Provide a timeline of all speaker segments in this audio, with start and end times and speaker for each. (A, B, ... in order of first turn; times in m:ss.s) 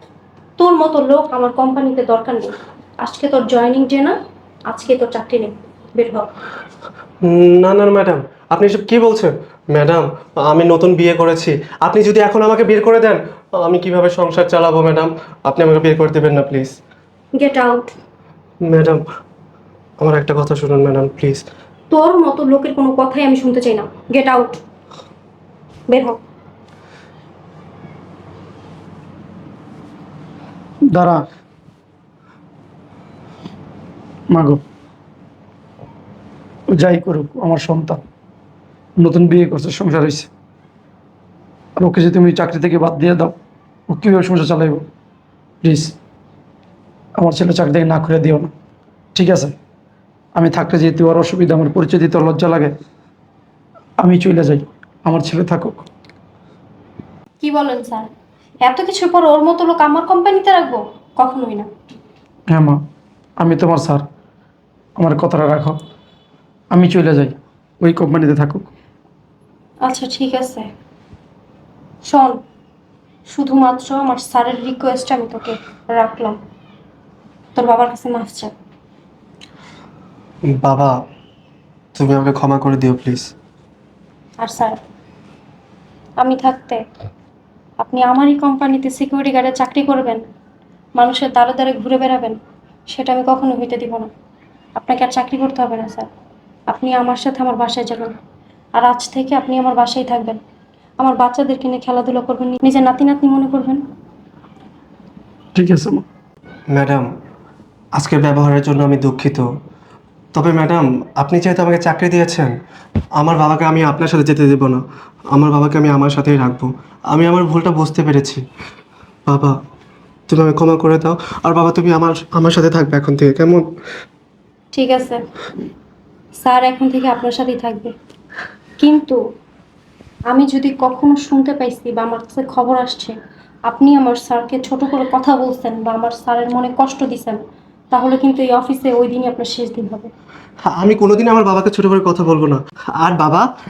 0:00.6-0:04.1 A
0:04.7-0:06.3 A
0:07.2-0:16.8 B
0:17.4-0:17.9 A
0:18.7-0:19.0 B
0:20.0-0:21.4 B
0:21.9-0:24.6 A
0:25.9-0:26.2 A
0:30.9-0:31.2 C
0:34.3-0:34.6 C
0:36.7-0:38.0 C
0:39.0-0:40.3 C
0:41.8-0:43.4 C
0:43.9-0:44.8 C
0:45.6-0:45.9 C
0:47.2-0:48.5 C
0:49.2-0:49.5 C
0:50.3-0:52.7 C
0:54.0-0:55.8 C
0:57.4-0:58.1 A
0:58.6-1:01.7 A
1:02.5-1:02.8 C
1:03.4-1:04.0 C
1:05.0-1:05.8 C
1:06.7-1:08.7 C
1:09.8-1:10.7 A
1:12.0-1:12.4 A
1:13.3-1:16.4 A
1:17.6-1:18.5 A
1:20.5-1:20.9 B
1:21.9-1:23.3 B
1:24.4-1:24.8 A
1:26.2-1:26.8 A
1:27.8-1:30.2 A
1:31.0-1:32.4 A
1:32.9-1:34.1 A
1:34.8-1:36.1 A
1:36.7-1:38.1 A
1:38.8-1:40.4 A
1:41.0-1:43.8 A
1:45.6-1:46.1 C
1:46.7-1:47.1 B
1:48.0-1:49.4 B
1:50.3-1:52.5 B
1:53.2-1:54.8 B
1:55.3-1:58.4 B
1:59.3-1:59.6 B
2:00.3-2:03.6 B
2:04.7-2:05.2 A
2:06.4-2:07.9 A
2:08.8-2:09.2 A
2:10.3-2:13.2 A
2:13.7-2:17.4 A
2:17.9-2:20.1 A
2:20.7-2:23.4 B